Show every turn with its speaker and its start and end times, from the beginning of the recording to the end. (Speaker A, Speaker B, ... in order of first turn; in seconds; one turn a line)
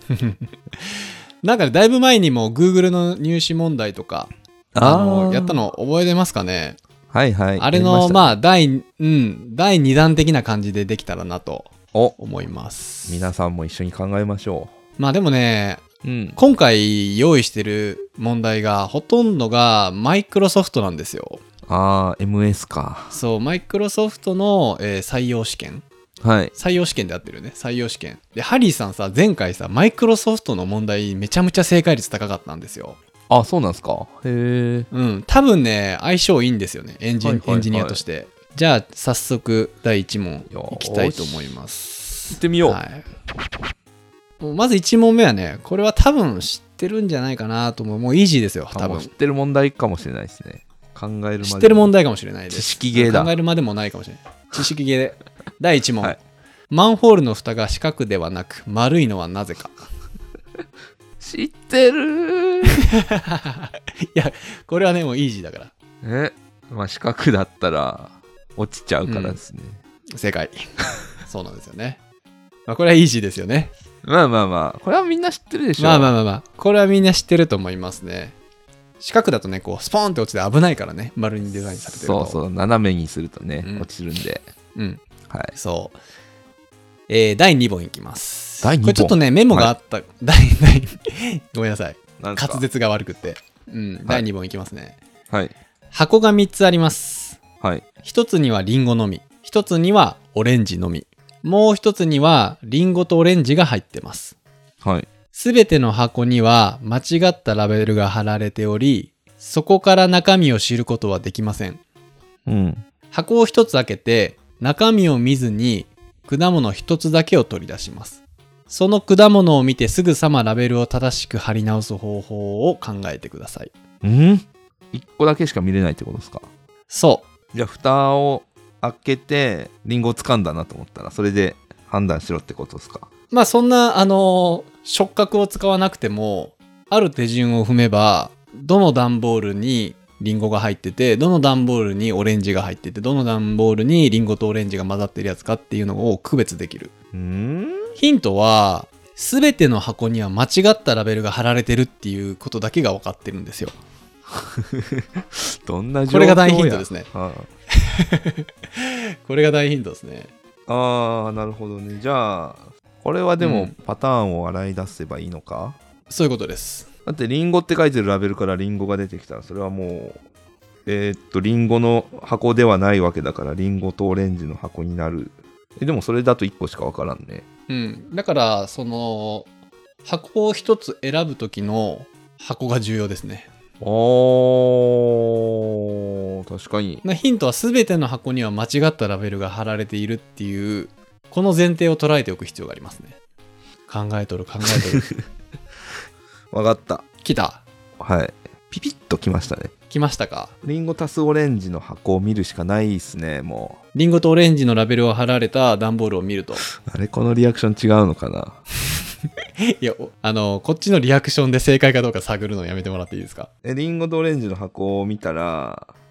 Speaker A: 0.1-6.8
Speaker B: 4.7-5.6
Speaker B: 7.1-8.3
Speaker A: 7.6-13.3
Speaker B: 13.1-14.7
Speaker A: 15.0-15.8
Speaker B: 16.0-16.4
Speaker A: 16.4-21.4
Speaker B: 21.7-23.2
Speaker A: 23.1-25.8
Speaker B: 26.2-26.5
Speaker A: 26.5-33.0
Speaker B: 33.3-34.9
Speaker A: 34.9-43.0
Speaker B: 37.2-38.0
Speaker B: 40.5-41.5
Speaker B: 42.4-42.8
Speaker A: 44.4-49.1
Speaker B: 48.7-51.9
Speaker A: 51.4-59.8
Speaker B: 52.5-53.3
Speaker B: 61.2-62.8
Speaker A: 63.0-65.7
Speaker B: 66.0-69.8
Speaker A: 69.0-69.4
Speaker A: 70.2-70.5
Speaker A: 71.2-72.0
Speaker A: 72.7-73.7
Speaker B: 74.0-76.2
Speaker A: 75.8-78.3
Speaker A: 79.0-82.4
Speaker B: 81.8-84.5
Speaker A: 83.6-83.9
Speaker A: 84.7-85.0
Speaker B: 85.3-85.5
Speaker A: 85.5-86.0
Speaker A: 87.1-95.0
Speaker B: 88.6-89.7
Speaker B: 92.2-92.6
Speaker A: 95.9-97.4
Speaker A: 98.0-104.3
Speaker B: 104.8-105.1
Speaker A: 105.3-111.8
Speaker B: 112.5-112.8
Speaker A: 113.1-123.7
Speaker B: 124.0-126.5
Speaker A: 126.9-127.2
Speaker B: 127.5-133.1
Speaker A: 133.3-146.9
Speaker B: 147.1-148.0
Speaker A: 148.0-153.8
Speaker B: 154.3-157.5
Speaker A: 156.1-157.1
Speaker A: 157.8-160.3
Speaker B: 160.7-165.8
Speaker A: 163.4-163.7
Speaker A: 166.1-166.9
Speaker B: 167.1-170.2
Speaker B: 170.8-177.4
Speaker A: 177.7-179.5
Speaker A: 180.0-183.5
Speaker B: 183.8-187.0
Speaker A: 187.0-193.1
Speaker A: 193.9-195.0
Speaker B: 194.7-195.2
Speaker B: 196.5-197.0
Speaker A: 197.2-197.6
Speaker B: 198.0-199.7
Speaker A: 199.9-200.5
Speaker B: 200.6-203.8
Speaker A: 203.9-206.6
Speaker B: 206.8-208.6
Speaker A: 209.7-213.5
Speaker B: 213.6-215.9